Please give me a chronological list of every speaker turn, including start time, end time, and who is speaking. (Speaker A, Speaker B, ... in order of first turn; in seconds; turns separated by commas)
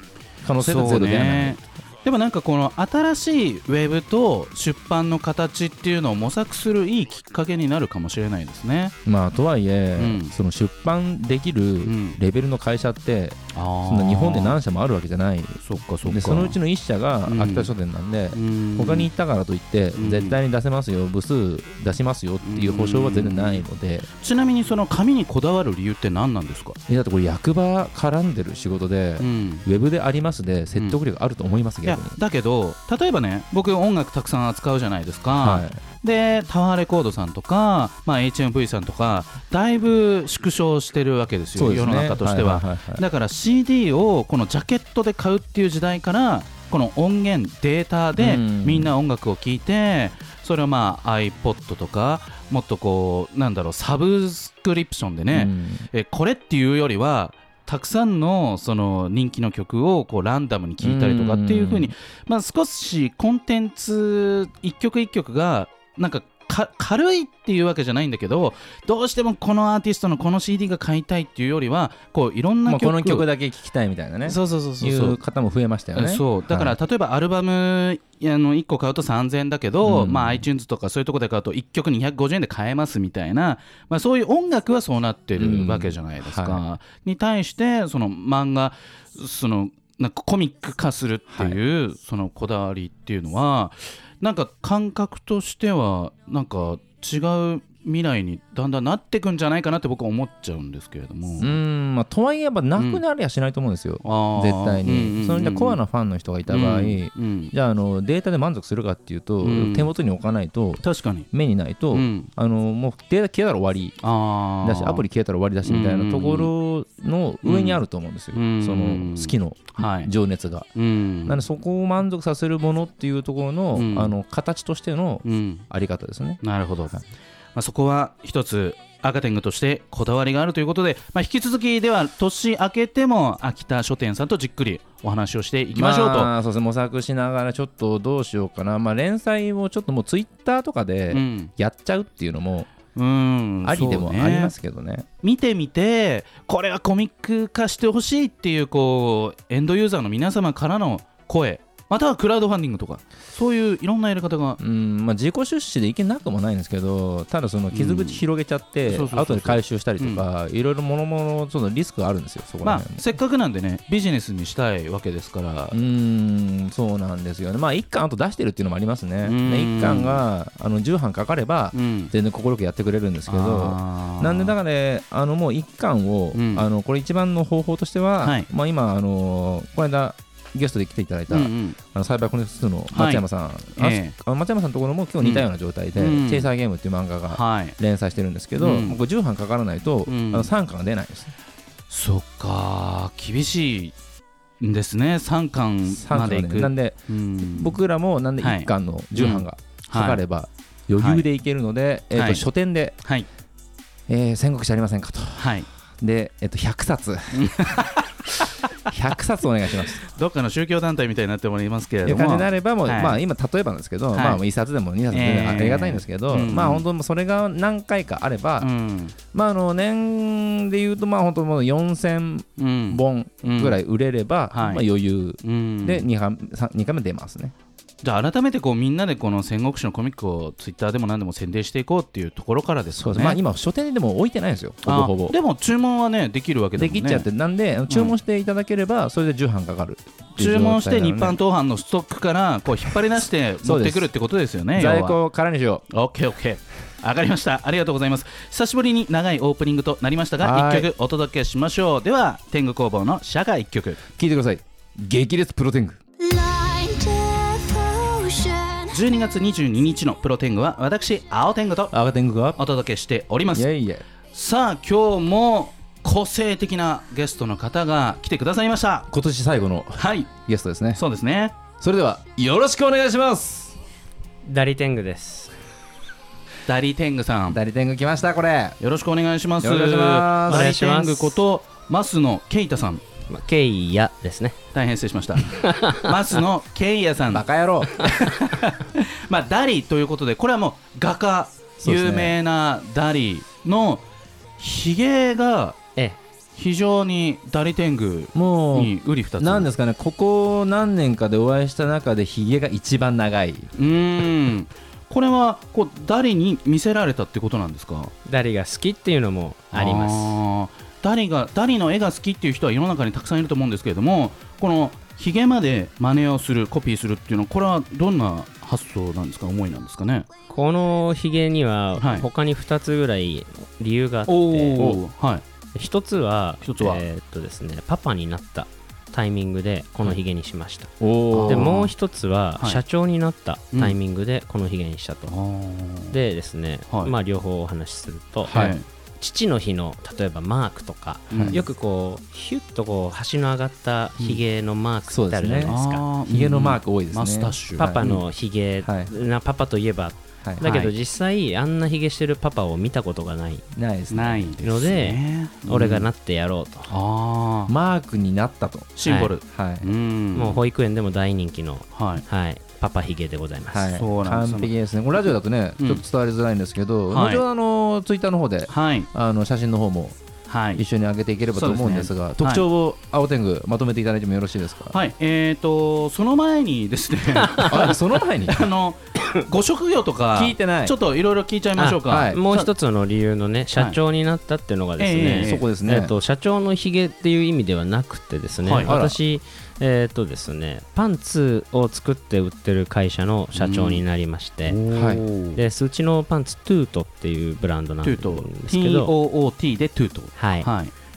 Speaker A: 0.4-1.6, Speaker B: 0.6-8.9, Speaker A: 9.1-24.1, Speaker B: 9.9-10.3, Speaker B: 11.8-12.2, Speaker B: 13.5-14.6, Speaker B: 15.6-16.6, Speaker B: 17.2-17.7, Speaker B: 18.3-19.1, Speaker B: 19.9-20.4, Speaker B: 22.4-23.6, Speaker B: 24.2-26.8, Speaker A: 26.9-32.2, Speaker B: 29.2-29.6, Speaker B: 31.8-73.3, Speaker A: 35.4-35.8, Speaker A: 41.5-43.0, Speaker A: 48.2-48.9, Speaker A: 55.3-55.9, Speaker A: 60.8-61.9, Speaker A: 72.7-76.8, Speaker B: 74.2-75.2, Speaker B: 75.9-101.5, Speaker A: 79.8-80.5, Speaker A: 85.3-86.6, Speaker A: 91.3-91.6, Speaker A: 101.4-114.0, Speaker B: 102.8-103.0, Speaker B: 104.0-105.8, Speaker B: 106.5-107.5, Speaker B: 109.4-109.9, Speaker B: 110.8-111.3, Speaker B: 111.9-112.3, Speaker B: 114.0-115.0, Speaker A: 114.6-120.7, Speaker B: 115.6-116.5, Speaker B: 117.4-117.8, Speaker B: 118.3-120.1, Speaker B: 120.8-121.4, Speaker A: 121.2-126.4, Speaker B: 123.7-124.1, Speaker B: 125.2-125.7, Speaker B: 126.4-126.9, Speaker B: 127.5-136.3, Speaker A: 135.7-142.7, Speaker B: 141.1-141.5, Speaker B: 142.9-144.5, Speaker A: 143.6-145.1, Speaker B: 145.2-154.6, Speaker A: 154.6-163.0, Speaker B: 157.7-158.2, Speaker B: 158.9-160.2, Speaker B: 162.6-165.8, Speaker A: 165.7-191.3, Speaker B: 169.2-170.2, Speaker B: 171.7-172.1, Speaker B: 173.3-174.6, Speaker B: 176.3-176.6, Speaker B: 178.2-178.5, Speaker B: 181.3-181.8, Speaker B: 182.9-183.2, Speaker B: 183.8-184.2, Speaker B: 185.2-186.5, Speaker B: 187.3-187.8, Speaker B: 188.6-189.0, Speaker B: 190.1-190.5, Speaker B: 191.9-193.9, Speaker B: 194.6-197.8, Speaker A: 195.9-202.9, Speaker B: 198.4-200.2, Speaker B: 201.0-201.2, Speaker B: 202.1-202.4, Speaker A: 204.1-207.8, Speaker B: 205.4-205.7, Speaker B: 207.3-208.5, Speaker A: 208.9-210.0, Speaker B: 210.0-213.2, Speaker A: 212.0-218.7, Speaker B: 214.1-214.4, Speaker B: 215.1-216.8, Speaker B: 218.6-219.1, Speaker A: 219.3-227.5, Speaker B: 222.6-223.8, Speaker B: 224.5-224.8, Speaker B: 225.4-226.1, Speaker B: 228.0-233.4, Speaker A: 232.9-235.3, Speaker B: 234.8-237.3, Speaker A: 236.8-241.4, Speaker B: 237.9-238.1, Speaker B: 240.4-245.2, Speaker A: 243.6-244.1, Speaker A: 244.7-245.8, Speaker B: 245.9-254.0, Speaker A: 250.4-250.9, Speaker A: 254.1-256.0, Speaker C: 256.2-259.2, Speaker B: 258.9-261.9, Speaker A: 261.9-262.6, Speaker B: 262.6-263.7, Speaker A: 263.5-264.0, Speaker B: 264.3-269.1, Speaker A: 269.1-271.0, Speaker B: 270.0-270.3, Speaker B: 270.9-271.6, Speaker A: 271.8-273.8, Speaker D: 274.4-275.5, Speaker B: 276.6-277.6, Speaker A: 277.5-278.8, Speaker B: 278.8-283.0, Speaker A: 279.6-280.7, Speaker D: 280.5-281.4, Speaker D: 283.3-284.6, Speaker B: 284.7-287.4, Speaker D: 285.4-286.1, Speaker A: 287.3-288.1, Speaker B: 288.0-294.0, Speaker A: 291.8-292.4, Speaker B: 294.6-295.8, Speaker B: 296.6-299.7, Speaker A: 298.3-303.7, Speaker B: 303.8-308.1, Speaker D: 308.2-310.4, Speaker B: 309.7-320.3, Speaker D: 320.5-325.0, Speaker B: 322.0-322.3, Speaker B: 324.3-325.4, Speaker D: 325.7-330.9, Speaker B: 326.6-327.0, Speaker A: 331.0-331.7, Speaker B: 331.3-331.9, Speaker D: 331.5-335.3, Speaker B: 335.3-336.2, Speaker D: 336.1-338.6, Speaker B: 338.5-338.8, Speaker A: 338.5-338.8, Speaker D: 339.2-346.0, Speaker B: 341.3-341.6, Speaker A: 341.3-341.6, Speaker A: 345.1-348.1, Speaker B: 345.6-348.2, Speaker D: 347.8-353.6, Speaker A: 348.8-349.1, Speaker B: 350.6-350.9, Speaker A: 353.7-354.5, Speaker B: 354.1-356.1, Speaker D: 354.6-356.9, Speaker B: 356.9-357.7, Speaker A: 357.7-358.9, Speaker B: 358.9-360.6, Speaker D: 359.0-359.3, Speaker A: 359.4-359.9, Speaker D: 360.3-363.9, Speaker B: 361.9-362.2, Speaker A: 363.7-370.1, Speaker B: 363.9-364.7, Speaker B: 367.1-367.4, Speaker B: 368.7-369.1, Speaker B: 370.5-370.8, Speaker A: 370.7-375.0, Speaker B: 371.5-372.6, Speaker B: 374.9-382.7, Speaker D: 377.4-377.9, Speaker A: 377.6-378.7, Speaker A: 380.3-380.9, Speaker D: 381.8-394.8, Speaker A: 382.1-382.4, Speaker B: 385.0-385.6, Speaker A: 385.4-386.1, Speaker B: 388.6-388.9, Speaker A: 388.8-389.2, Speaker B: 393.5-394.0, Speaker B: 394.6-395.6, Speaker A: 394.9-395.2, Speaker D: 395.6-399.1, Speaker B: 398.0-400.9, Speaker D: 400.4-400.7